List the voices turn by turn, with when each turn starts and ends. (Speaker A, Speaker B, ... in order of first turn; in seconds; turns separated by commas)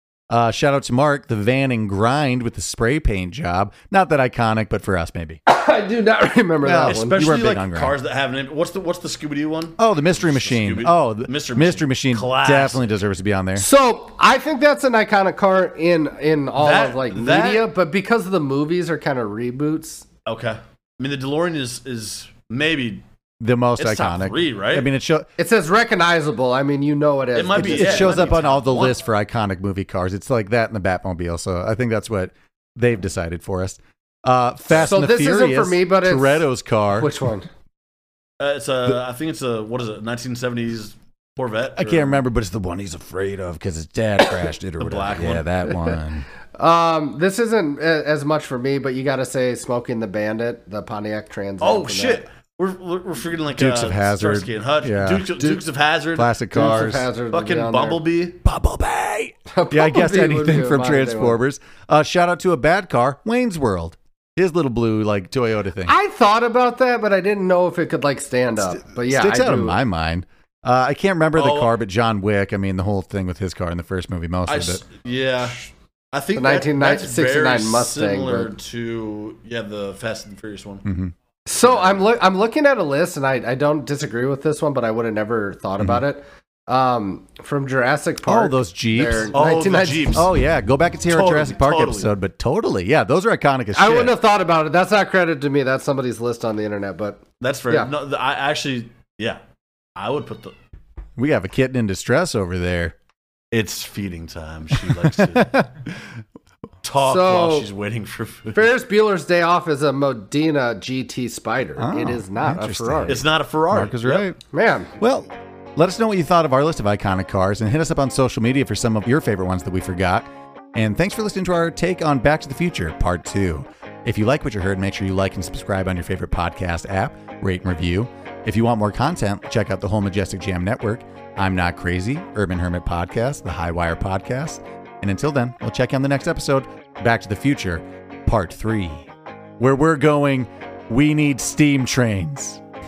Speaker A: 0.3-5.4, Speaker B: 5.5-7.2, Speaker A: 6.6-8.0, Speaker C: 6.9-12.9, Speaker A: 9.8-13.7, Speaker B: 13.6-20.0, Speaker C: 16.6-17.7, Speaker C: 20.3-23.0, Speaker A: 23.4-25.3, Speaker C: 23.8-24.9, Speaker B: 25.4-28.3, Speaker C: 27.4-29.0, Speaker A: 27.6-37.1, Speaker B: 34.8-37.5, Speaker C: 38.4-42.2, Speaker A: 41.8-46.3, Speaker C: 44.8-45.5, Speaker B: 46.6-52.2, Speaker C: 51.6-56.4, Speaker A: 53.6-55.6, Speaker A: 56.1-57.1, Speaker B: 56.5-58.0, Speaker C: 57.3-58.4, Speaker A: 58.4-65.9, Speaker B: 59.5-61.4, Speaker B: 65.9-69.8, Speaker A: 68.7-74.8, Speaker C: 71.4-71.8, Speaker C: 74.5-80.8, Speaker B: 76.3-78.5, Speaker A: 80.8-81.1, Speaker B: 81.5-90.2, Speaker C: 81.6-82.0, Speaker A: 88.2-89.3, Speaker C: 89.3-90.3, Speaker A: 90.1-94.2, Speaker C: 91.1-92.1, Speaker B: 93.8-97.9, Speaker C: 97.4-99.4, Speaker C: 100.0-100.5, Speaker A: 101.2-103.0, Speaker C: 103.5-105.7, Speaker A: 104.8-105.7, Speaker C: 106.8-108.6, Speaker B: 107.0-107.7, Speaker B: 108.5-113.2, Speaker A: 111.8-114.4, Speaker C: 113.1-114.3, Speaker B: 114.5-114.9, Speaker A: 115.0-139.1, Speaker A: 139.6-142.6